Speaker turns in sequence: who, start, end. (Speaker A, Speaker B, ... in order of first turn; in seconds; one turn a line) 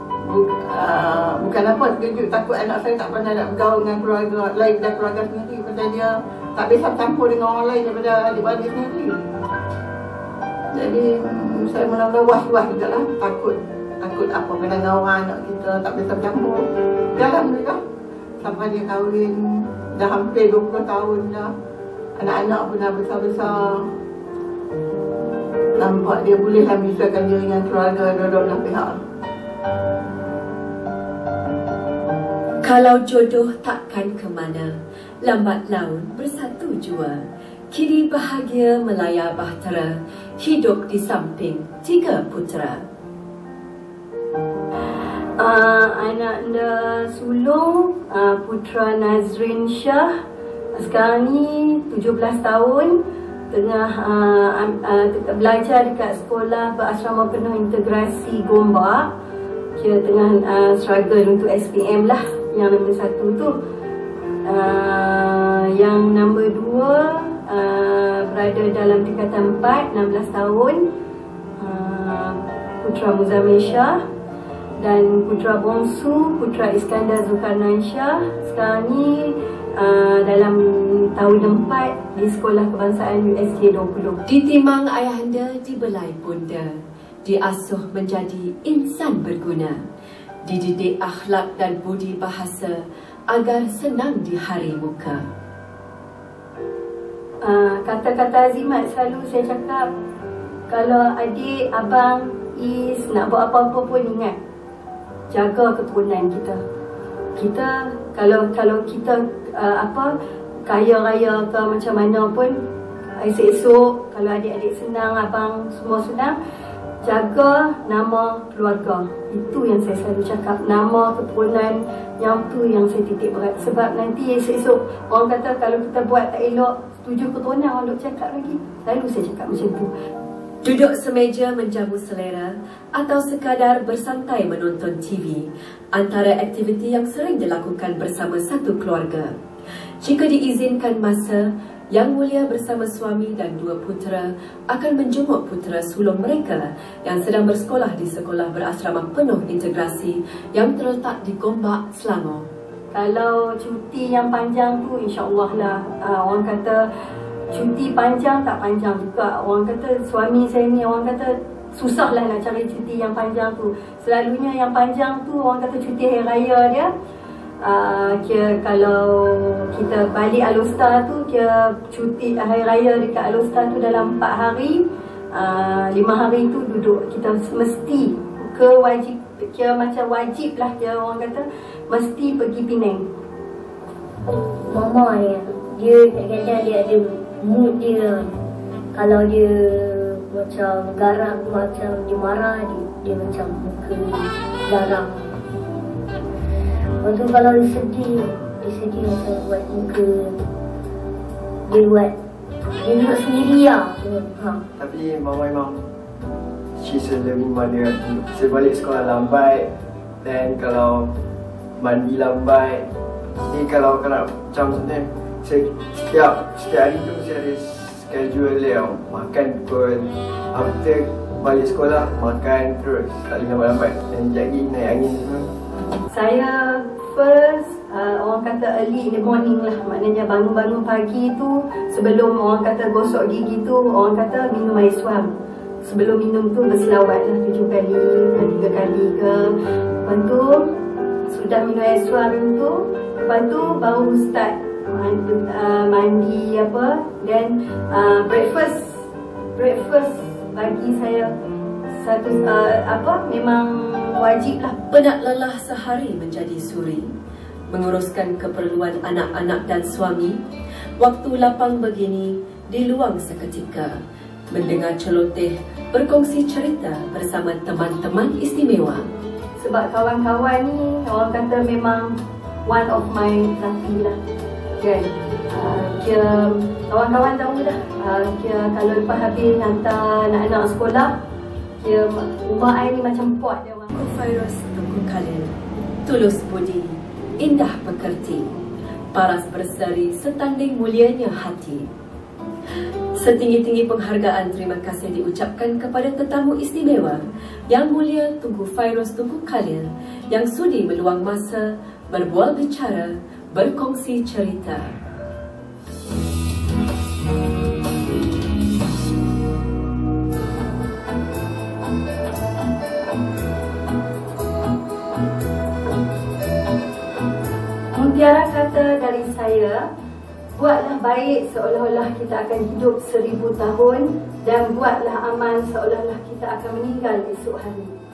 Speaker A: 0.2-9.1
Speaker A: 10.7-17.8
Speaker A: 18.4-21.5
Speaker A: 22.1-23.8
Speaker A: 25.8-29.0
Speaker B: 32.6-42.9
Speaker C: 45.4-50.1
Speaker C: 50.7-53.0
Speaker C: 53.5-59.1
Speaker C: 59.8-63.6
Speaker C: 64.4-70.9
Speaker C: 71.6-74.0
Speaker C: 74.8-84.2
Speaker B: 84.3-89.8
Speaker B: 90.4-95.2
Speaker C: 97.4-99.8
Speaker C: 100.7-104.4
Speaker C: 105.3-106.6
Speaker C: 107.4-112.6
Speaker C: 113.2-116.4
Speaker C: 117.0-129.9
Speaker B: 130.6-139.3
Speaker B: 140.0-152.5
Speaker C: 152.9-156.9
Speaker C: 157.5-166.9
Speaker C: 167.6-183.0
Speaker D: 184.3-188.3
Speaker D: 188.9-195.3
Speaker D: 197.0-200.4
Speaker D: 201.6-202.1
Speaker D: 202.8-204.6
Speaker E: 204.8-205.8
Speaker E: 206.8-209.7
Speaker E: 210.2-211.1
Speaker E: 211.8-212.9
Speaker E: 213.5-225.5
Speaker C: 226.1-240.7
Speaker C: 241.3-251.3
Speaker C: 252.0-254.8
Speaker B: 254.9-257.1
Speaker B: 257.7-260.4
Speaker B: 261.0-264.0
Speaker B: 264.5-269.1
Speaker C: 269.6-272.1
Speaker C: 272.6-274.2
Speaker C: 274.8-281.1
Speaker C: 281.8-283.9
Speaker B: 283.9-285.5
Speaker B: 286.1-288.5
Speaker B: 289.1-291.9
Speaker B: 293.1-305.0
Speaker C: 317.9-319.9
Speaker C: 320.6-327.9